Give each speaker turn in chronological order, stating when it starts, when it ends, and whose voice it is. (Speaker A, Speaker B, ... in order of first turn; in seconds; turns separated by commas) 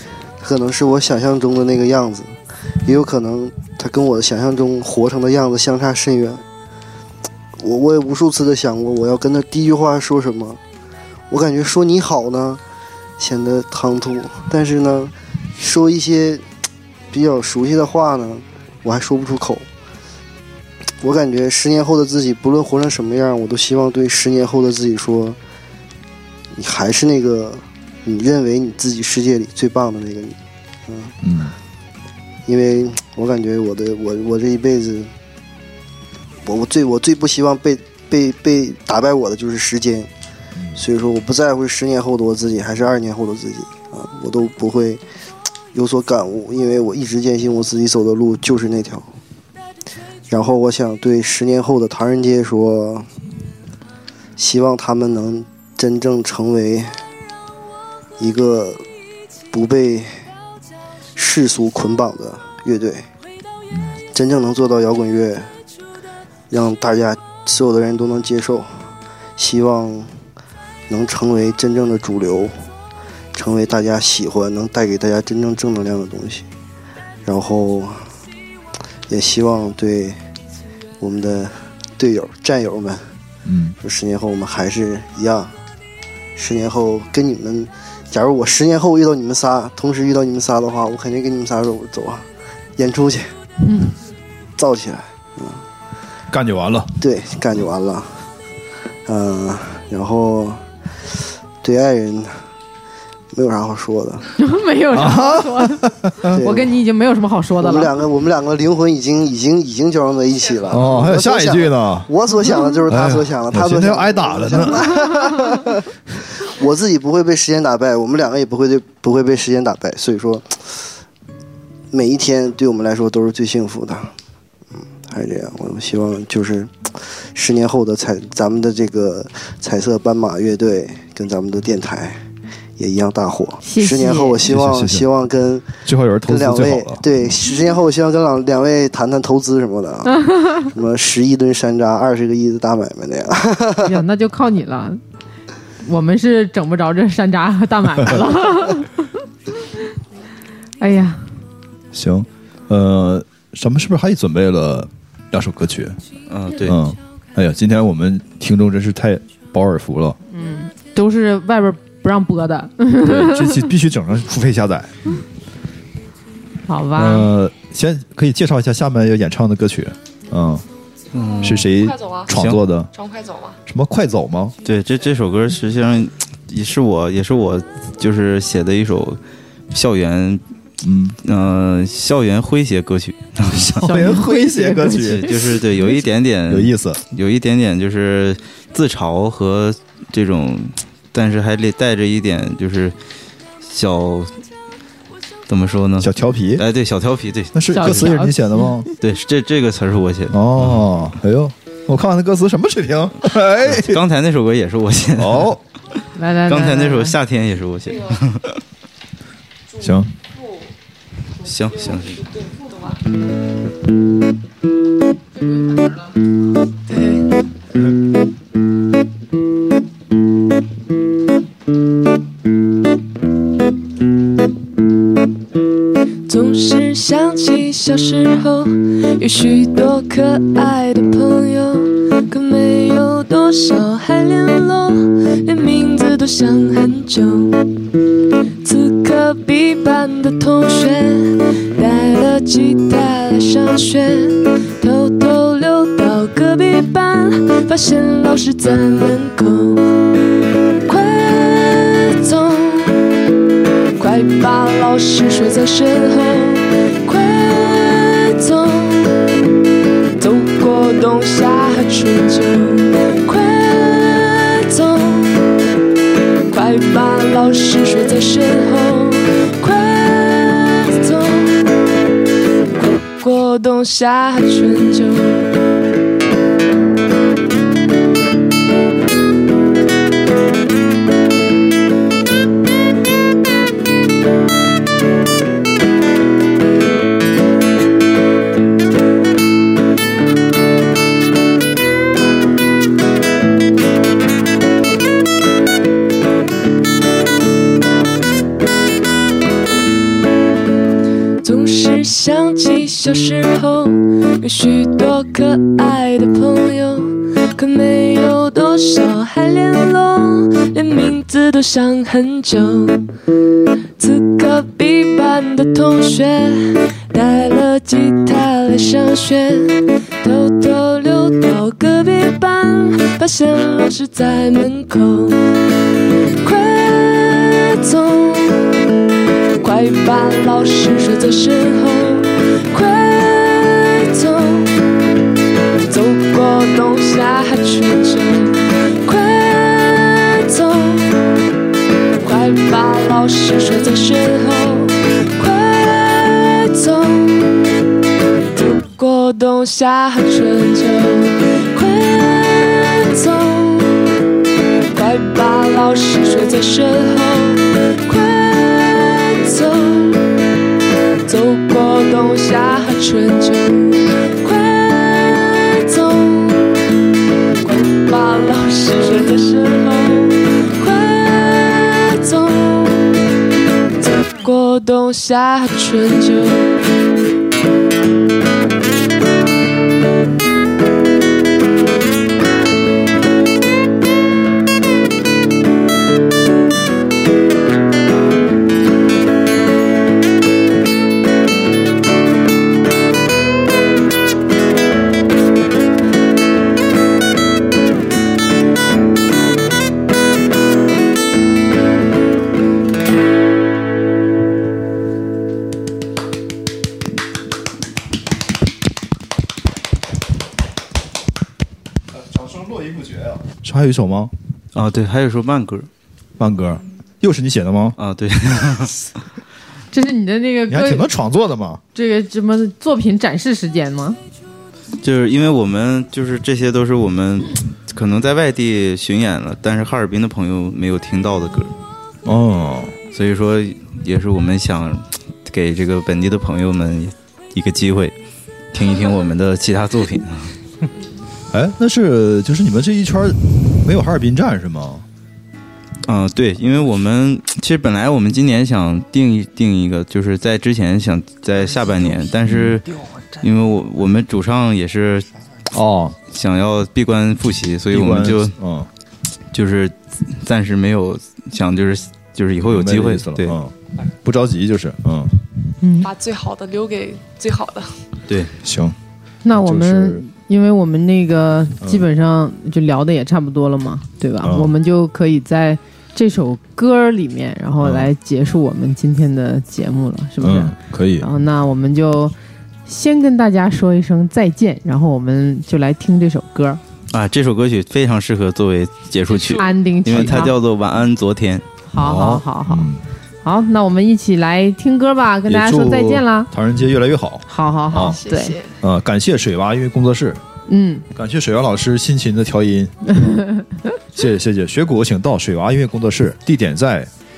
Speaker A: 0.4-6.4, Speaker A: 7.6-10.6, Speaker A: 11.3-12.6, Speaker A: 13.2-16.4, Speaker A: 17.1-19.7, Speaker A: 21.0-25.4, Speaker A: 26.5-30.4, Speaker A: 30.9-31.1, Speaker B: 31.2-31.6, Speaker A: 32.5-35.1, Speaker A: 36.4-40.1, Speaker A: 40.8-45.0, Speaker A: 45.7-49.1, Speaker A: 50.3-53.1, Speaker A: 54.4-57.0, Speaker A: 58.2-58.9, Speaker A: 59.5-60.2, Speaker A: 61.2-63.1, Speaker B: 63.7-64.0, Speaker A: 64.1-65.5, Speaker A: 66.5-70.1, Speaker A: 70.9-72.7, Speaker A: 73.3-76.5, Speaker A: 77.2-78.1, Speaker A: 79.1-80.2, Speaker A: 81.0-83.1, Speaker B: 83.5-83.8, Speaker A: 83.8-85.5, Speaker A: 86.4-92.3, Speaker A: 92.8-93.3, Speaker C: 93.6-94.0, Speaker A: 94.6-95.7, Speaker B: 96.3-97.0, Speaker A: 97.0-98.2, Speaker A: 99.1-100.6, Speaker A: 101.6-102.4, Speaker A: 103.3-104.3, Speaker C: 104.4-107.9, Speaker B: 104.9-106.4, Speaker A: 106.3-106.8, Speaker A: 107.6-120.9, Speaker B: 110.7-112.1, Speaker B: 112.9-115.0, Speaker A: 121.9-124.1, Speaker A: 124.9-132.2, Speaker A: 132.8-144.0, Speaker C: 133.6-134.4, Speaker B: 134.4-135.1, Speaker B: 135.8-137.4, Speaker C: 143.8-145.0, Speaker C: 145.8-149.0, Speaker C: 150.8-151.2, Speaker B: 151.9-156.0, Speaker D: 156.3-156.8, Speaker B: 156.6-160.2, Speaker C: 160.3-163.7, Speaker B: 163.0-165.2, Speaker C: 166.7-167.3, Speaker B: 166.9-170.7, Speaker D: 171.1-171.7, Speaker B: 171.4-172.9, Speaker E: 171.7-172.3, Speaker D: 172.4-172.6, Speaker E: 172.9-173.6, Speaker B: 173.7-174.6, Speaker D: 174.6-179.2, Speaker D: 179.7-180.4, Speaker B: 180.8-181.2, Speaker D: 181.2-183.9, Speaker B: 183.5-185.6, Speaker C: 183.8-185.4, Speaker D: 185.0-192.9, Speaker B: 186.5-187.0, Speaker D: 193.6-194.3, Speaker D: 195.5-198.1, Speaker B: 196.0-196.7, Speaker B: 197.5-198.9, Speaker C: 197.7-198.9, Speaker D: 199.0-200.9, Speaker B: 200.3-204.0, Speaker D: 203.6-205.6, Speaker B: 205.2-205.6, Speaker C: 206.2-207.2, Speaker D: 206.5-208.6, Speaker B: 209.8-210.1, Speaker E: 210.3-210.7, Speaker D: 211.4-212.2, Speaker E: 211.7-213.0, Speaker E: 216.9-217.3, Speaker E: 226.3-237.6, Speaker E: 238.6-250.0, Speaker E: 250.9-253.1, Speaker E: 254.0-259.2, Speaker E: 260.1-265.5, Speaker E: 266.5-271.6, Speaker E: 272.8-275.5, Speaker E: 301.4-313.1, Speaker E: 314.0-325.5, Speaker E: 326.4-328.8, Speaker E: 329.6-334.8, Speaker E: 335.8-341.2, Speaker E: 342.2-347.5, Speaker E: 348.5-354.2, Speaker E: 354.9-360.2, Speaker E: 361.2-366.8, Speaker E: 367.6-373.2, Speaker E: 374.0-376.8, Speaker B: 412.1-414.3, Speaker D: 414.7-415.9, Speaker B: 416.4-418.0, Speaker D: 418.0-419.1, Speaker C: 419.9-421.1, Speaker B: 420.7-421.8, Speaker C: 421.9-424.2, Speaker D: 425.0-431.8, Speaker B: 432.2-433.0, Speaker D: 433.1-438.1, Speaker D: 438.7-440.5, Speaker B: 441.5-445.1, Speaker D: 446.1-455.3, Speaker B: 452.5-452.8, Speaker B: 455.7-456.2, Speaker D: 456.3-458.5, Speaker B: 457.9-458.9, Speaker D: 459.5-463.6, Speaker B: 462.6-465.4, Speaker C: 465.8-466.1, Speaker E: 466.0-467.9, Speaker D: 468.3-468.5, Speaker B: 468.6-469.0, Speaker C: 469.4-482.4, Speaker B: 469.5-470.2, Speaker B: 471.8-472.1, Speaker B: 474.4-474.7, Speaker B: 477.8-478.1, Speaker B: 480.4-481.3, Speaker C: 482.9-486.8, Speaker D: 487.1-491.6, Speaker E: 489.3-489.7, Speaker C: 489.6-490.5, Speaker B: 490.1-490.5, Speaker C: 491.9-492.9, Speaker B: 492.0-493.0, Speaker C: 493.4-496.5, Speaker B: 495.5-498.2, Speaker C: 497.5-498.6, Speaker E: 498.0-498.7, Speaker B: 498.8-500.4, Speaker C: 500.7-501.1, Speaker B: 501.1-503.0, Speaker C: 503.1-503.8, Speaker B: 504.1-507.1